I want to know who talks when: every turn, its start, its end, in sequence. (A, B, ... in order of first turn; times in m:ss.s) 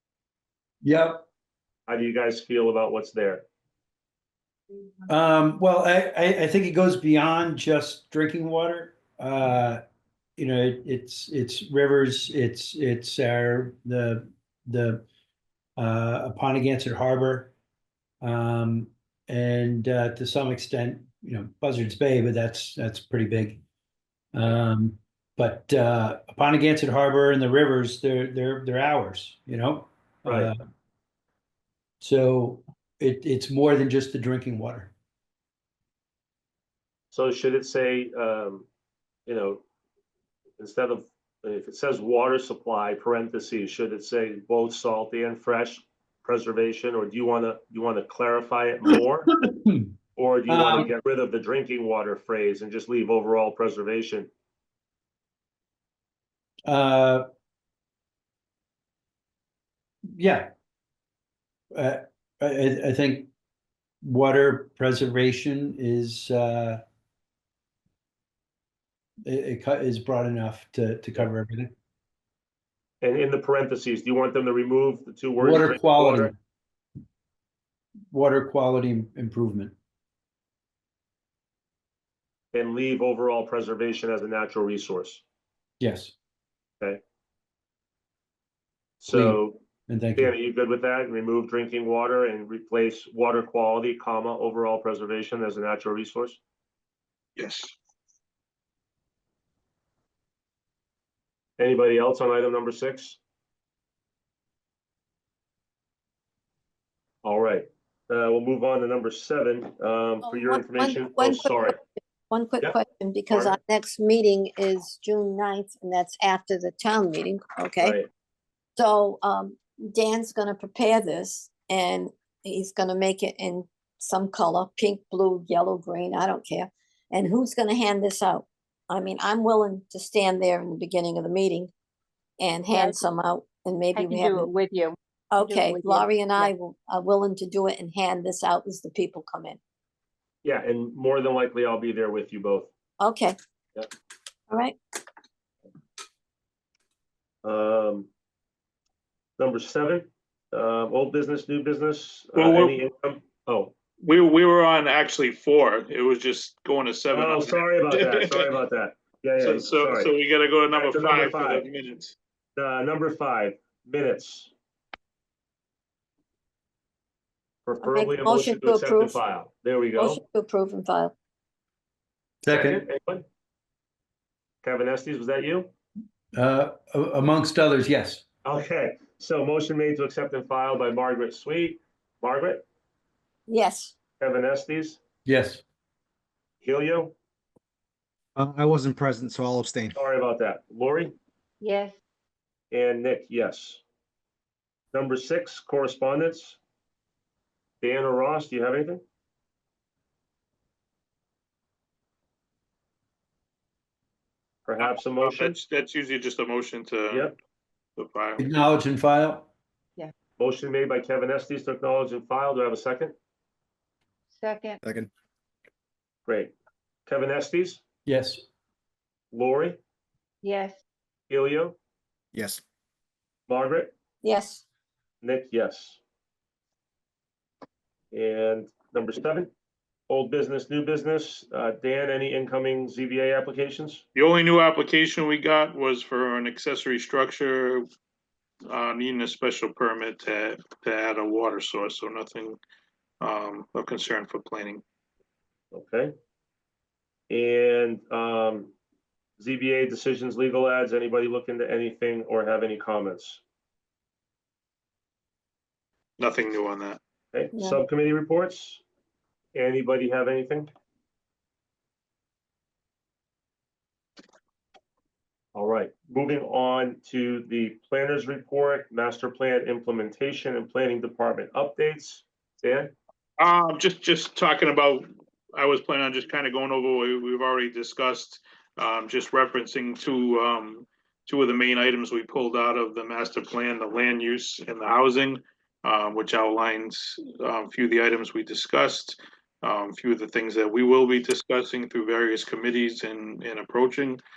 0:00.8-0:01.2 A
0:01.9-0:03.4 B
0:05.1-0:09.8 A
0:10.4-0:15.0 A
0:15.8-0:17.5 A
0:18.2-0:23.6 A
0:24.3-0:30.6 A
0:30.2-0:30.5 B
0:32.0-0:34.9 A
0:37.1-0:38.7 B
0:39.2-0:39.6 B
0:40.6-0:49.3 B
0:49.4-0:49.9 A
0:50.1-0:54.3 B
0:50.5-0:50.9 A
0:56.6-0:57.2 A
1:00.2-1:00.5 A
1:01.7-1:03.3 A
1:04.0-1:06.8 A
1:09.2-1:11.7 A
1:13.0-1:16.3 B
1:15.4-1:16.3 A
1:18.1-1:19.7 A
1:22.5-1:25.2 B
1:25.8-1:26.1 A
1:29.0-1:29.6 B
1:29.1-1:30.3 A
1:30.2-1:36.4 B
1:37.4-1:37.7 C
1:41.6-1:43.2 B
1:47.2-1:51.8 B
1:50.2-1:51.8 D
1:52.3-1:58.0 D
1:53.3-1:53.6 B
1:57.8-1:58.1 B
1:58.8-2:11.7 D
2:12.4-2:14.5 D
2:12.7-2:13.0 E
2:13.9-2:16.5 E
2:15.3-2:19.6 D
2:20.4-2:22.7 B
2:23.0-2:23.4 D
2:24.5-2:24.8 D
2:27.4-2:28.1 B
2:29.4-2:33.7 B
2:32.3-2:32.8 C
2:34.0-2:38.5 C
2:37.1-2:40.1 B
2:39.4-2:42.2 C
2:40.7-2:41.7 B
2:42.6-2:44.5 B
2:47.6-2:50.2 B
2:47.8-2:49.2 D
2:50.0-2:51.1 D
2:52.4-2:52.8 A
2:52.5-2:53.2 B
2:54.6-2:55.7 B
2:56.3-2:58.2 A
2:58.4-3:02.6 B
3:03.5-3:03.9 D
3:04.2-3:05.0 B
3:05.2-3:05.6 A
3:06.6-3:07.1 B
3:08.4-3:10.0 F
3:09.9-3:11.2 B
3:11.6-3:12.0 E
3:12.7-3:13.8 B
3:14.9-3:16.6 B
3:17.8-3:19.0 B
3:24.6-3:25.5 B
3:24.8-3:27.3 C
3:27.1-3:27.4 B
3:28.0-3:28.4 C
3:28.4-3:29.5 A
3:30.4-3:33.1 B
3:34.3-3:34.8 E
3:34.8-3:35.1 F
3:36.2-3:36.5 B
3:37.0-3:37.8 B
3:38.0-3:38.4 A
3:39.3-3:39.8 B
3:40.4-3:40.8 E
3:41.3-3:41.8 B
3:42.3-3:42.6 F
3:43.5-3:43.9 B
3:44.2-3:44.6 D
3:45.2-3:46.0 B
3:48.1-3:49.5 B
3:50.1-3:54.0 B
3:54.1-3:57.8 C
3:58.6-4:02.6 C
4:03.2-4:04.8 C
4:05.7-4:06.1 B
4:07.3-4:08.7 B
4:09.4-4:13.4 B
4:16.2-4:17.0 C
4:17.3-4:18.8 B
4:17.5-4:17.8 D
4:19.5-4:20.7 B
4:25.5-4:32.9 B
4:33.4-4:54.2 C